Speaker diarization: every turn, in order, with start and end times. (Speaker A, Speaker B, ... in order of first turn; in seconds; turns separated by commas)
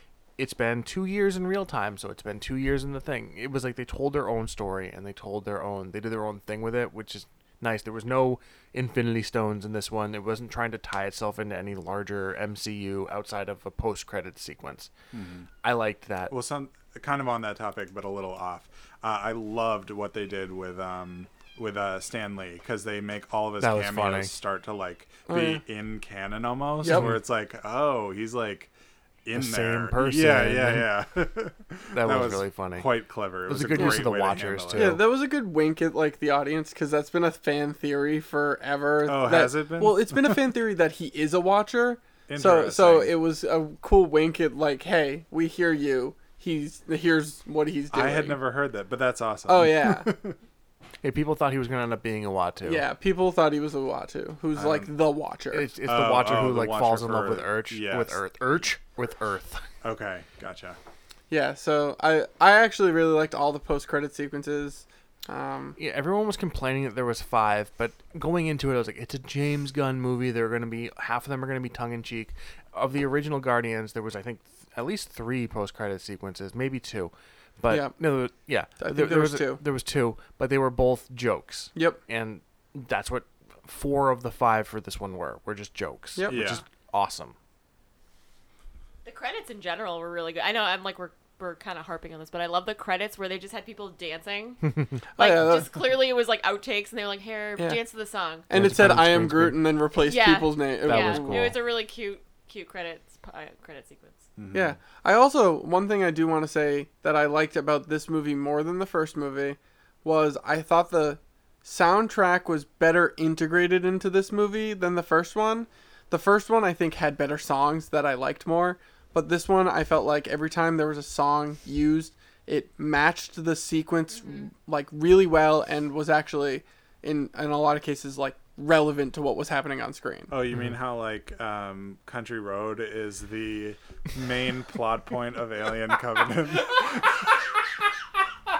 Speaker A: 0.4-14.9, Speaker B: 15.1-15.5, Speaker A: 15.6-16.3, Speaker B: 16.3-28.7, Speaker A: 23.6-24.3, Speaker C: 25.3-25.6, Speaker C: 26.8-27.2, Speaker A: 26.8-27.2, Speaker B: 29.2-35.0, Speaker A: 29.3-30.9, Speaker A: 31.9-32.9, Speaker A: 33.5-35.0, Speaker C: 33.7-34.0, Speaker C: 34.7-48.4, Speaker B: 39.0-40.5, Speaker B: 42.3-43.1, Speaker B: 47.9-50.4, Speaker C: 49.5-50.1, Speaker A: 51.0-52.8, Speaker C: 52.6-55.6, Speaker B: 54.5-54.9, Speaker A: 55.5-59.6, Speaker B: 55.8-58.4, Speaker B: 59.8-60.8, Speaker C: 61.3-65.8, Speaker A: 65.8-87.3, Speaker C: 77.7-77.9, Speaker C: 78.8-79.6, Speaker C: 86.2-86.6, Speaker B: 86.2-86.6, Speaker D: 89.0-98.5, Speaker C: 95.2-95.7, Speaker C: 98.5-101.5, Speaker A: 98.5-99.6, Speaker D: 100.0-104.2, Speaker A: 100.8-101.5, Speaker B: 104.4-104.8, Speaker C: 104.5-130.3, Speaker B: 130.3-137.4